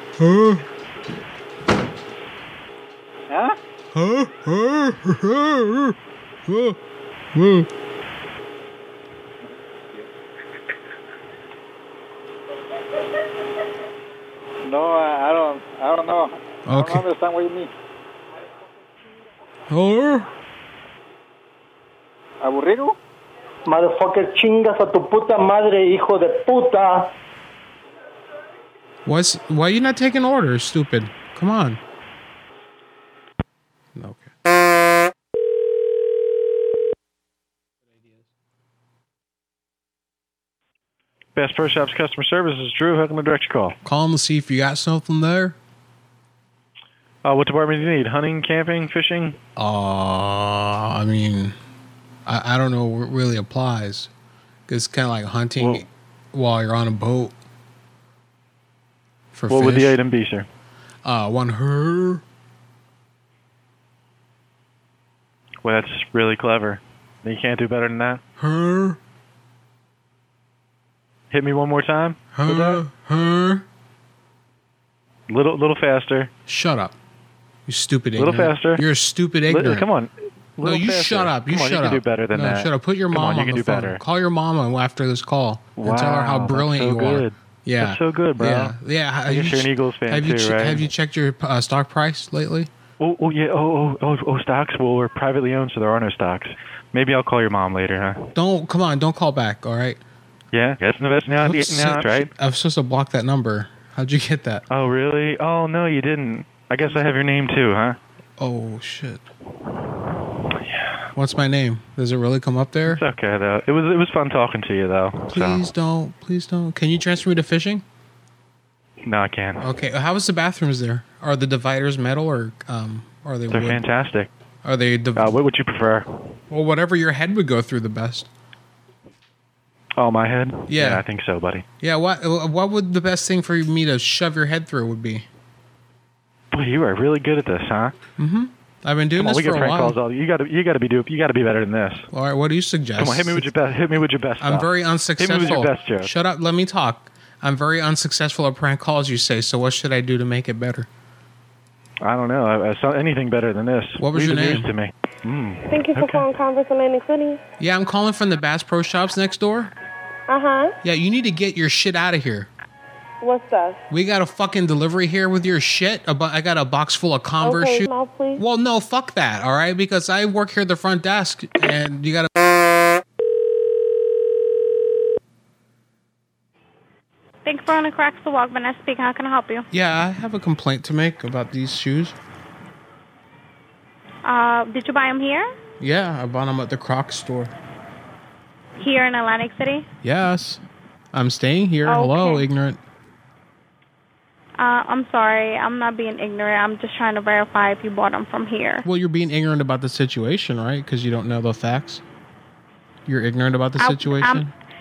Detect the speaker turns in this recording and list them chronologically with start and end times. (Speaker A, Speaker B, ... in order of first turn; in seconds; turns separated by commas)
Speaker A: 0.2-0.7, Speaker B: 3.3-3.6, Speaker A: 3.9-6.8, Speaker A: 7.3-7.7, Speaker B: 14.6-17.7, Speaker A: 16.7-17.1, Speaker A: 19.7-20.3, Speaker B: 22.4-23.0, Speaker C: 23.7-27.1, Speaker A: 29.1-31.8, Speaker A: 34.0-34.3, Speaker D: 41.4-43.8, Speaker A: 43.8-45.6, Speaker D: 47.2-49.4, Speaker A: 49.6-51.6, Speaker A: 52.3-54.1, Speaker A: 54.7-57.3, Speaker D: 55.6-55.8, Speaker A: 59.3-60.0, Speaker D: 59.5-60.5, Speaker A: 61.0-62.2, Speaker D: 65.6-68.2, Speaker A: 68.4-69.0, Speaker D: 71.3-72.8, Speaker A: 72.3-73.7, Speaker D: 75.3-76.3, Speaker A: 76.5-77.0, Speaker A: 77.7-79.9, Speaker D: 78.2-78.8, Speaker D: 79.5-84.0, Speaker A: 80.6-92.7, Speaker D: 85.8-88.8, Speaker D: 89.3-90.8, Speaker D: 93.0-98.3, Speaker A: 98.3-100.0, Speaker D: 100.5-102.3, Speaker A: 101.4-104.6, Speaker D: 104.7-108.0, Speaker A: 108.4-109.2, Speaker D: 110.6-111.0, Speaker A: 111.2-113.0, Speaker D: 112.9-115.6, Speaker A: 115.3-117.8, Speaker D: 119.0-119.6, Speaker A: 119.6-123.8, Speaker D: 123.5-124.3, Speaker A: 124.6-125.3, Speaker D: 125.2-126.1, Speaker A: 126.5-128.3, Speaker D: 130.0-131.7, Speaker A: 130.7-131.0, Speaker A: 131.8-135.3, Speaker D: 136.5-137.9, Speaker A: 138.2-140.0, Speaker D: 139.2-142.1, Speaker A: 142.1-143.4, Speaker D: 143.0-146.1, Speaker A: 144.4-150.9, Speaker D: 152.0-156.3, Speaker A: 154.0-154.7, Speaker E: 155.7-157.4, Speaker A: 157.6-159.7, Speaker E: 160.3-160.8, Speaker A: 160.8-162.5, Speaker E: 163.2-163.8, Speaker A: 163.9-172.3, Speaker E: 167.4-168.4, Speaker F: 177.4-179.7, Speaker A: 179.7-182.2, Speaker F: 184.2-185.5, Speaker A: 185.8-187.5, Speaker F: 188.8-189.9, Speaker A: 190.0-190.6, Speaker A: 191.1-192.8, Speaker F: 191.8-192.5, Speaker F: 194.6-198.9, Speaker A: 198.8-202.0, Speaker A: 203.1-204.5, Speaker F: 203.8-204.5